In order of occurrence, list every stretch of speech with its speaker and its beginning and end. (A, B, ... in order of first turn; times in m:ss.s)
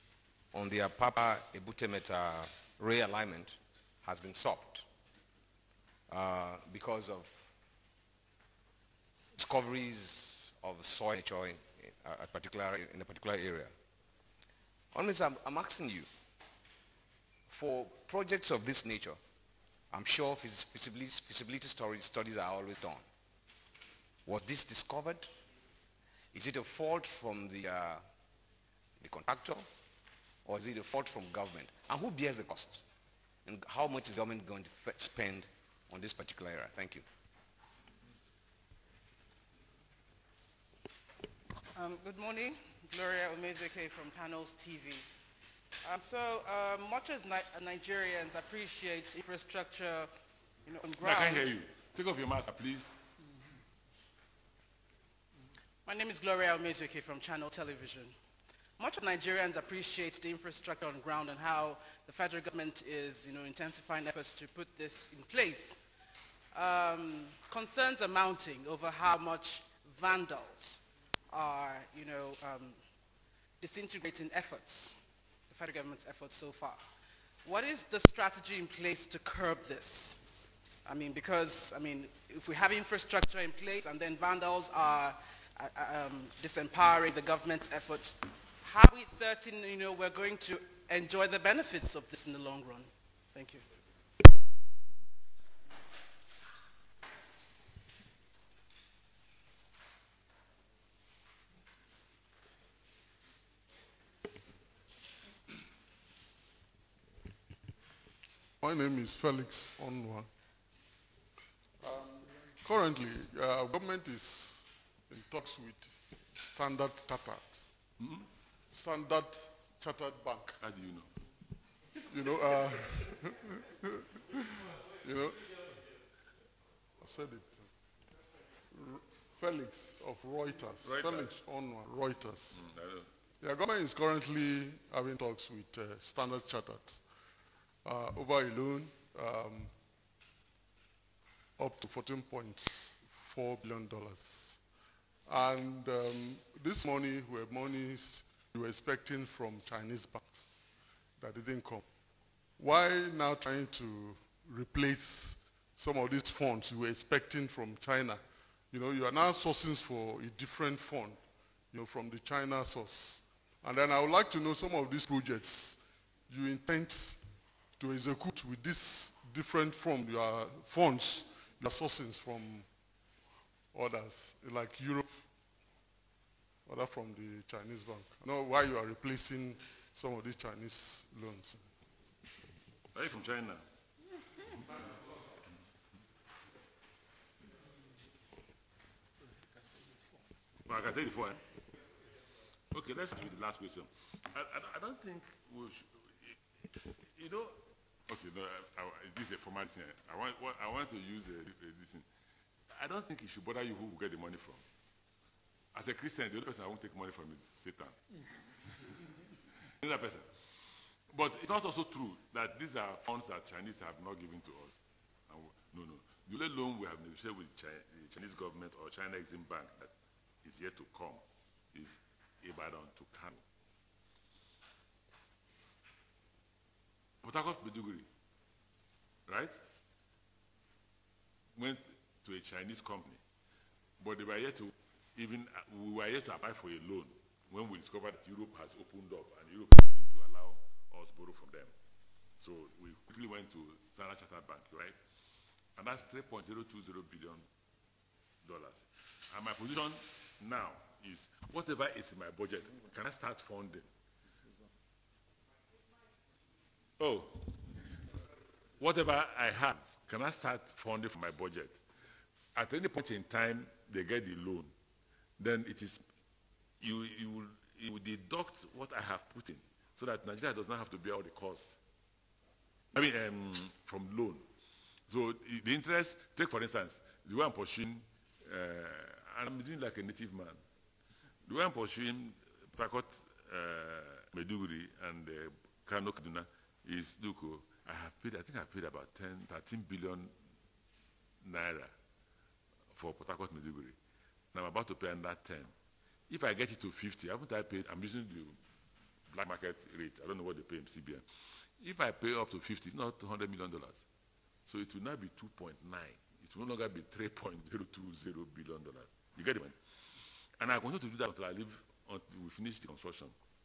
0:00.5-0:04.9 A
0:06.1-0:07.5 A
0:09.4-0:13.7 A
0:14.9-0:16.1 A
0:17.5-0:19.2 A
0:19.9-0:23.0 A
0:24.3-0:25.3 A
0:26.3-0:28.0 A
0:29.0-0:29.7 A
0:30.4-0:32.8 A
0:33.4-0:37.0 A
0:41.7-0:45.0 B
0:45.8-0:50.1 B
0:50.6-0:51.5 B
0:51.0-0:53.0 C
0:55.9-0:58.1 B
0:58.8-1:05.8 B
1:06.5-1:12.8 B
1:13.6-1:15.0 B
1:15.5-1:16.8 B
1:17.4-1:20.3 B
1:20.8-1:33.6 B
1:48.6-1:50.3 D
1:51.8-1:57.6 D
1:58.0-1:58.2 C
1:58.7-2:00.6 D
2:00.6-2:01.1 C
2:02.1-2:05.6 D
2:07.0-2:07.7 D
2:08.7-2:12.6 D
2:10.8-2:11.4 C
2:12.5-2:13.1 C
2:13.4-2:17.1 D
2:17.8-2:19.7 D
2:21.6-2:24.6 D
2:25.3-2:31.8 D
2:32.6-2:47.2 D
2:47.8-2:52.7 D
2:53.7-2:55.1 D
2:56.6-3:01.7 D
3:02.9-3:03.6 C
3:10.6-3:11.4 C
3:12.7-3:22.0 C
3:22.7-3:24.6 C
3:25.7-3:28.0 C
3:28.6-3:29.0 C
3:29.6-3:30.4 C
3:31.1-3:34.8 C
3:35.3-3:39.9 C
3:40.4-3:43.4 C
3:47.2-3:48.1 C
3:49.3-3:49.6 C
3:51.6-3:53.2 C
3:54.0-4:01.7 C
4:02.4-4:05.0 C
4:05.8-4:07.5 C
4:08.4-4:13.9 C
4:17.0-4:17.8 C
4:18.8-4:21.8 C
4:22.6-4:24.7 C
4:25.4-4:26.0 C
4:26.8-4:31.8 C
4:32.9-4:34.4 C
4:35.1-4:40.6 C
4:41.4-4:50.3 C
4:51.4-4:51.9 C
4:52.9-4:54.0 C
4:54.5-4:55.7 C
4:56.3-4:58.6 C
4:59.3-5:04.0 C
5:04.7-5:09.8 C
5:10.6-5:13.3 C